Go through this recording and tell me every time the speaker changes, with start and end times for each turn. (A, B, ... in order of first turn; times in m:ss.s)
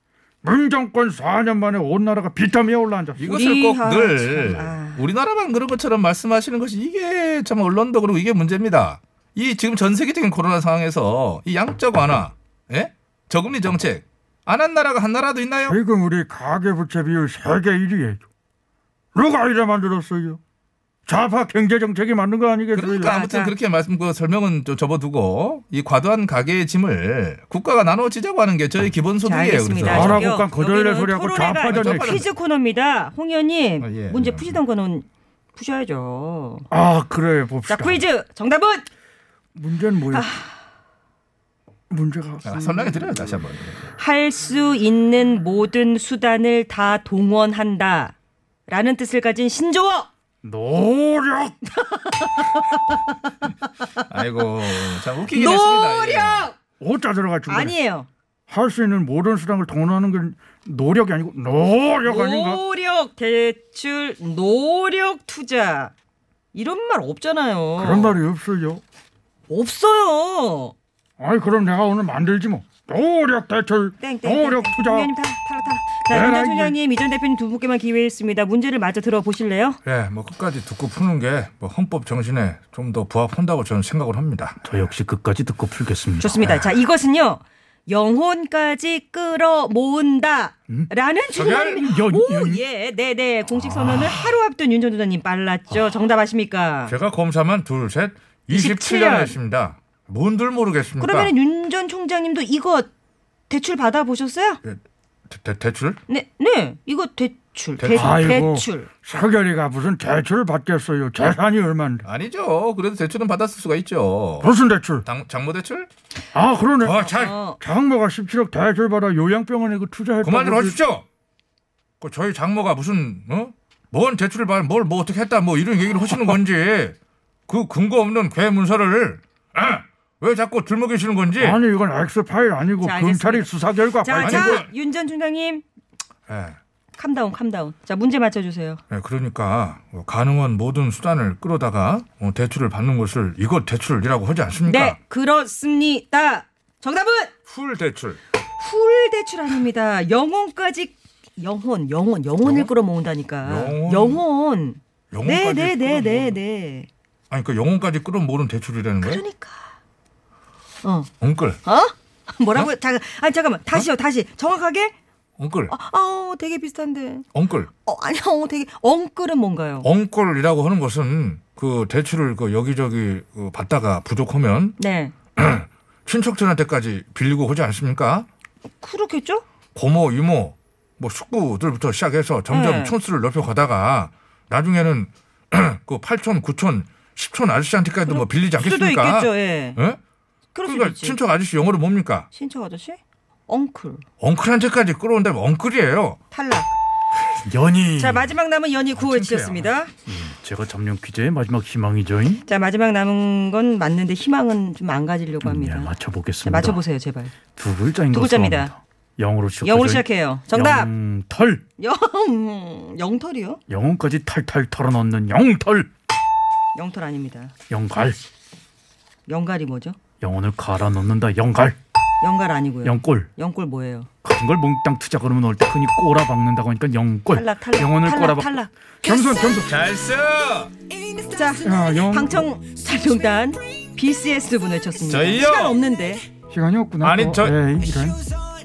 0:00.4-0:03.3 A
0:03.2-0:15.8 B
0:03.2-0:05.0 C
0:15.6-0:18.2 A
0:19.1-0:20.4 A
0:21.1-0:23.2 A
0:22.7-0:30.2 B
0:23.0-0:23.5 C
0:29.2-0:35.0 C
0:29.9-0:32.1 A
0:29.9-0:30.3 D
0:31.6-0:32.3 B
0:33.8-0:34.6 B
0:35.6-0:36.7 C
0:36.7-0:38.0 A
0:37.7-0:38.8 C
0:39.6-0:40.2 A
0:40.1-0:40.6 C
0:41.9-0:43.0 A
0:42.4-0:43.9 B
0:43.9-0:48.1 C
0:48.7-0:50.1 C
0:50.5-0:51.6 A
0:51.7-0:54.0 C
0:54.1-0:56.5 B
0:55.3-0:56.5 C
0:56.8-0:57.7 A
0:57.5-0:58.1 C
0:58.5-1:02.6 A
1:02.0-1:05.9 C
1:06.5-1:08.2 C
1:07.8-1:08.8 A
1:09.5-1:10.7 C
1:11.2-1:15.1 A
1:14.0-1:19.8 C
1:16.1-1:16.8 A
1:19.8-1:24.6 B
1:24.6-1:26.7 D
1:26.2-1:36.9 C
1:31.3-1:31.8 B
1:31.8-1:32.6 D
1:33.7-1:34.2 D
1:36.9-1:41.3 B
1:38.5-1:39.3 C
1:41.0-1:42.9 C
1:43.5-1:44.6 C
1:44.6-1:46.0 B
1:46.1-1:48.9 C
1:47.8-1:48.3 B
1:47.9-1:52.0 A
1:52.0-1:55.9 B
1:54.4-1:55.0 A
1:56.3-2:00.8 A
1:56.8-1:57.3 B
1:57.0-1:57.6 C
2:00.2-2:01.0 B
2:02.0-2:06.9 B
2:07.5-2:11.6 B
2:11.4-2:14.6 A
2:12.8-2:13.5 C
2:14.0-2:15.6 C
2:14.2-2:14.7 B
2:16.3-2:16.6 B
2:17.0-2:18.8 C
2:18.9-2:25.0 B
2:24.6-2:27.3 C
2:27.5-2:28.2 B
2:28.6-2:36.9 C
2:32.4-2:32.7 B
2:33.4-2:34.2 B
2:35.1-2:36.4 B
2:37.3-2:39.2 B
2:39.0-2:39.7 C
2:40.8-2:41.1 C
2:41.2-2:41.6 B
2:41.6-2:44.9 C
2:45.4-2:45.7 B
2:45.7-2:47.2 C
2:47.3-2:47.7 B
2:47.8-2:49.9 C
2:49.8-2:54.8 B
2:54.8-2:55.1 C
2:55.4-2:58.3 B
2:58.8-2:59.4 C
2:59.7-3:10.0 B
3:02.5-3:02.9 C
3:08.0-3:09.8 C
3:10.5-3:11.2 C
3:10.6-3:12.3 B
3:12.3-3:14.0 C
3:14.2-3:16.2 B
3:16.3-3:16.7 C
3:17.2-3:18.3 D
3:18.0-3:19.9 C
3:19.0-3:19.7 B
3:20.0-3:22.4 D
3:22.4-3:25.9 C
3:25.4-3:26.8 D
3:26.4-3:27.3 C
3:27.6-3:31.6 D
3:28.1-3:28.7 C
3:29.6-3:30.9 C
3:31.8-3:33.6 C
3:33.7-3:35.9 D
3:36.7-3:37.5 C
3:37.7-3:38.2 D
3:39.3-3:40.0 C
3:40.2-3:41.8 D
3:42.2-3:44.1 C
3:42.8-3:43.3 D
3:44.2-3:48.5 D
3:47.3-3:48.7 C
3:49.0-3:49.7 A
3:49.6-3:50.7 B
3:51.2-3:56.2 C
3:51.6-3:52.3 A
3:55.1-3:55.8 B
3:56.5-3:58.2 A
3:57.0-3:57.6 B